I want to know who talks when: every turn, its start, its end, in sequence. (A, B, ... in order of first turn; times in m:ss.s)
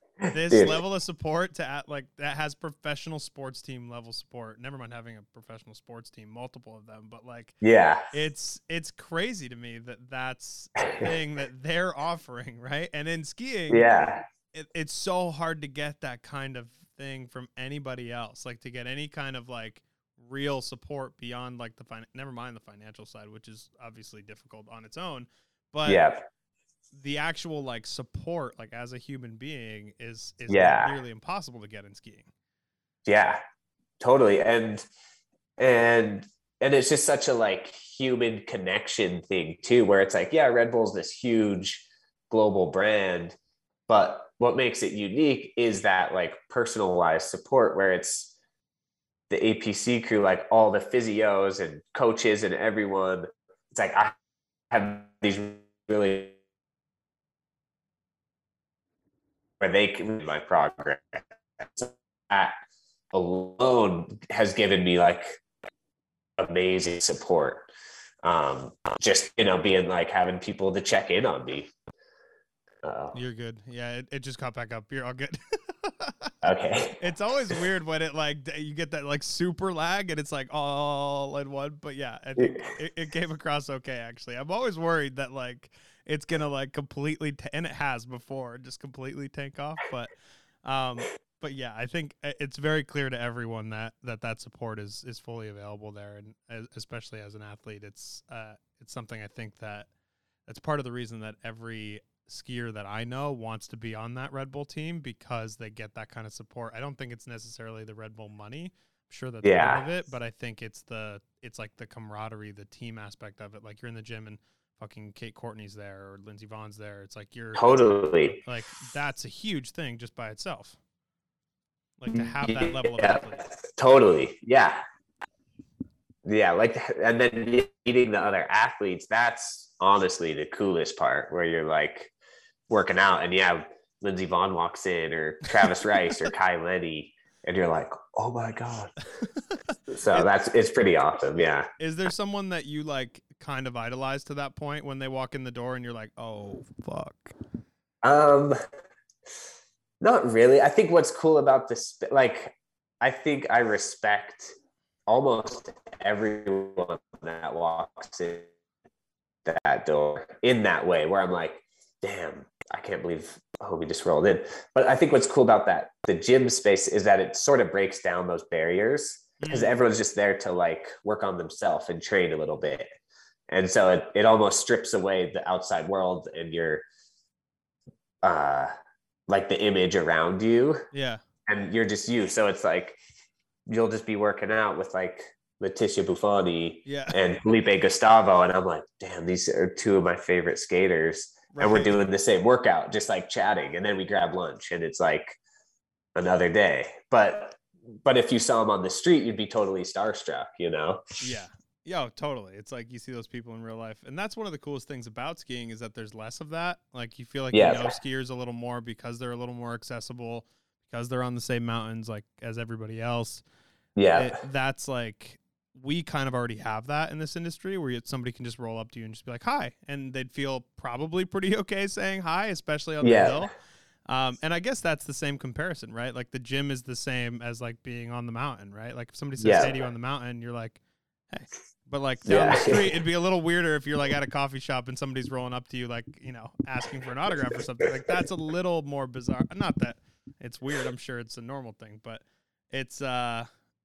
0:00.2-0:00.8 A
0:00.3-0:07.6 B
0:07.6-0:08.0 A
0:08.1-0:26.0 B
0:10.8-0:11.1 A
0:13.7-0:14.2 A
0:25.8-0:26.2 A
0:26.9-0:32.3 B
0:30.5-0:30.9 A
0:33.0-0:33.4 A
0:34.0-0:34.8 A
0:35.6-0:43.4 A
0:43.9-0:48.3 A
0:49.3-0:54.1 A
0:54.7-0:56.4 A
0:59.6-1:02.6 A
1:03.1-1:05.4 A
1:06.4-1:07.7 A
1:08.2-1:11.7 A
1:12.8-1:13.2 A
1:13.1-1:16.3 B
1:16.4-1:17.0 A
1:17.0-1:30.1 B
1:22.4-1:22.7 A
1:30.6-1:39.9 B
1:40.5-2:00.8 B
1:49.4-1:49.8 A
1:57.6-1:58.4 A
2:02.0-2:03.5 B
2:02.1-2:04.8 A
2:06.2-2:12.1 A
2:12.7-2:18.9 A
2:19.2-2:20.3 B
2:19.9-2:21.7 A
2:21.8-2:27.3 B
2:28.0-2:28.6 A
2:30.0-2:34.5 A
2:35.1-2:38.5 A
2:39.4-2:52.9 A
2:49.4-2:49.7 B
2:53.5-2:56.8 A
2:58.2-2:58.7 A
2:59.3-3:00.8 A
3:00.9-3:01.2 B
3:01.5-3:03.0 A
3:03.7-3:15.4 A
3:06.8-3:07.2 B
3:11.5-3:12.0 B
3:16.2-3:21.0 A
3:21.2-3:33.4 B
3:27.5-3:27.9 A
3:34.0-3:34.4 A
3:34.1-3:43.5 B
3:43.0-3:43.5 A
3:44.1-3:50.8 B
3:49.4-3:49.7 A
3:51.3-4:03.5 B
3:52.2-3:52.8 A